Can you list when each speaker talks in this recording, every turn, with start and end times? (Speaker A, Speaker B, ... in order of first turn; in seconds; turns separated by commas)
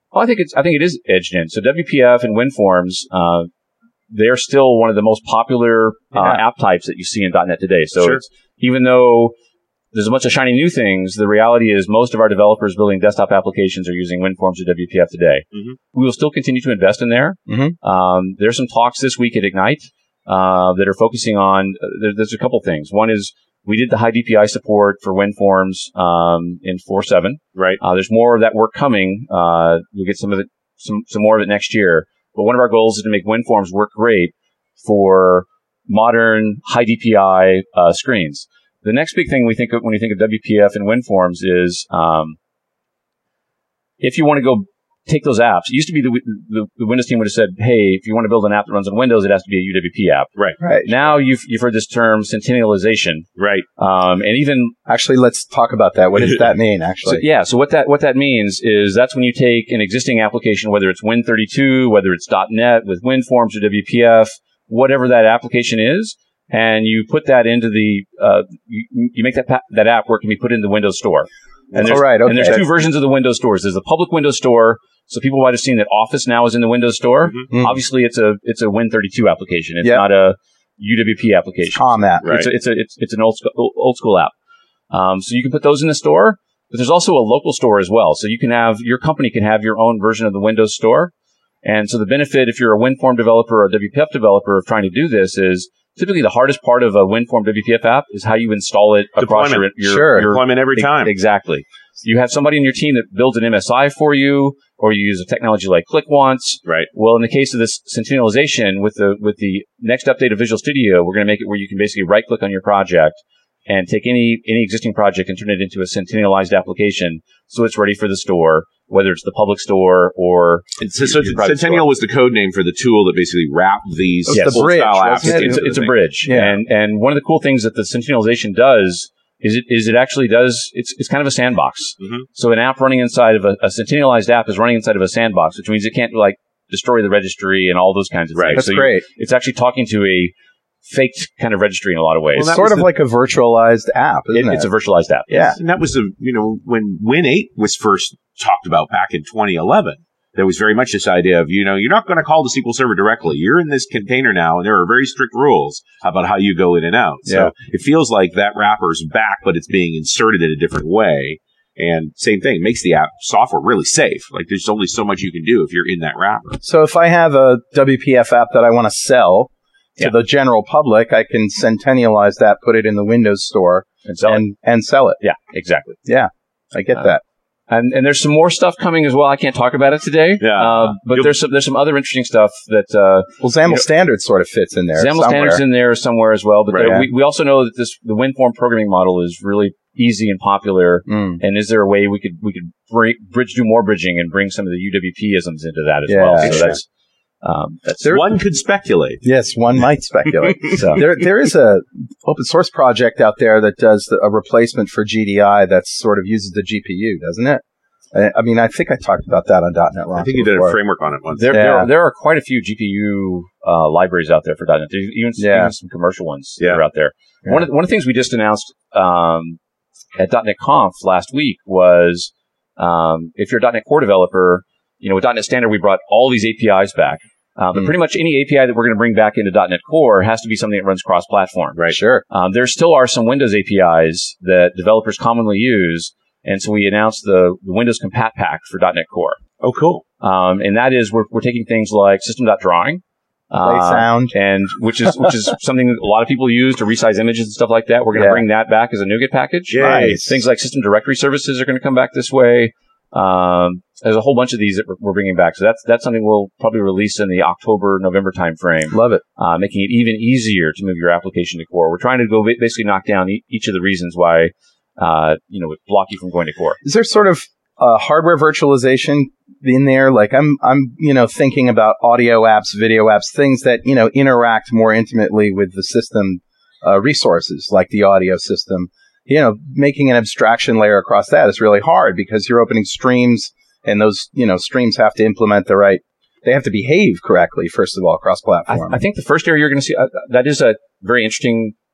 Speaker A: 0.1-3.5, Speaker A: 4.1-9.3, Speaker B: 6.1-6.4, Speaker A: 9.9-42.4, Speaker C: 15.5-15.8, Speaker B: 17.5-17.8, Speaker A: 44.0-50.3, Speaker B: 50.6-51.1, Speaker A: 50.9-54.8, Speaker C: 53.4-53.7, Speaker B: 54.9-57.2, Speaker A: 57.0-84.3, Speaker C: 71.7-72.7, Speaker B: 71.8-72.7, Speaker B: 77.5-77.8, Speaker B: 81.7-82.2, Speaker C: 82.2-82.5, Speaker A: 84.9-91.1, Speaker A: 91.6-121.9, Speaker C: 99.2-101.1, Speaker B: 99.8-100.3, Speaker C: 120.8-126.0, Speaker B: 124.3-126.6, Speaker A: 124.3-142.6, Speaker C: 132.0-132.2, Speaker C: 138.3-138.7, Speaker B: 138.6-139.1, Speaker C: 142.3-142.9, Speaker B: 142.4-144.7, Speaker A: 144.3-145.5, Speaker B: 145.3-145.6, Speaker C: 145.5-166.6, Speaker B: 157.3-157.5, Speaker B: 166.6-175.2, Speaker A: 174.1-174.4, Speaker A: 175.2-176.0, Speaker B: 176.1-177.2, Speaker A: 177.7-183.9, Speaker C: 180.4-181.3, Speaker B: 183.4-185.6, Speaker A: 184.9-196.8, Speaker C: 186.7-187.0, Speaker B: 186.7-187.1, Speaker B: 191.1-191.4, Speaker B: 196.1-196.8, Speaker C: 196.4-196.7, Speaker A: 197.4-198.2, Speaker C: 198.0-199.2, Speaker B: 199.2-207.6, Speaker A: 200.7-201.0, Speaker B: 208.1-210.8, Speaker C: 210.2-211.6, Speaker A: 211.3-219.6, Speaker B: 211.5-211.9, Speaker B: 215.4-215.7, Speaker A: 220.2-239.4, Speaker B: 231.9-232.2, Speaker C: 239.6-240.0, Speaker A: 240.2-266.8, Speaker B: 243.6-244.3, Speaker B: 248.2-248.4, Speaker C: 249.7-250.3, Speaker B: 249.8-250.3, Speaker B: 258.9-259.2, Speaker B: 266.8-289.0, Speaker A: 288.7-291.7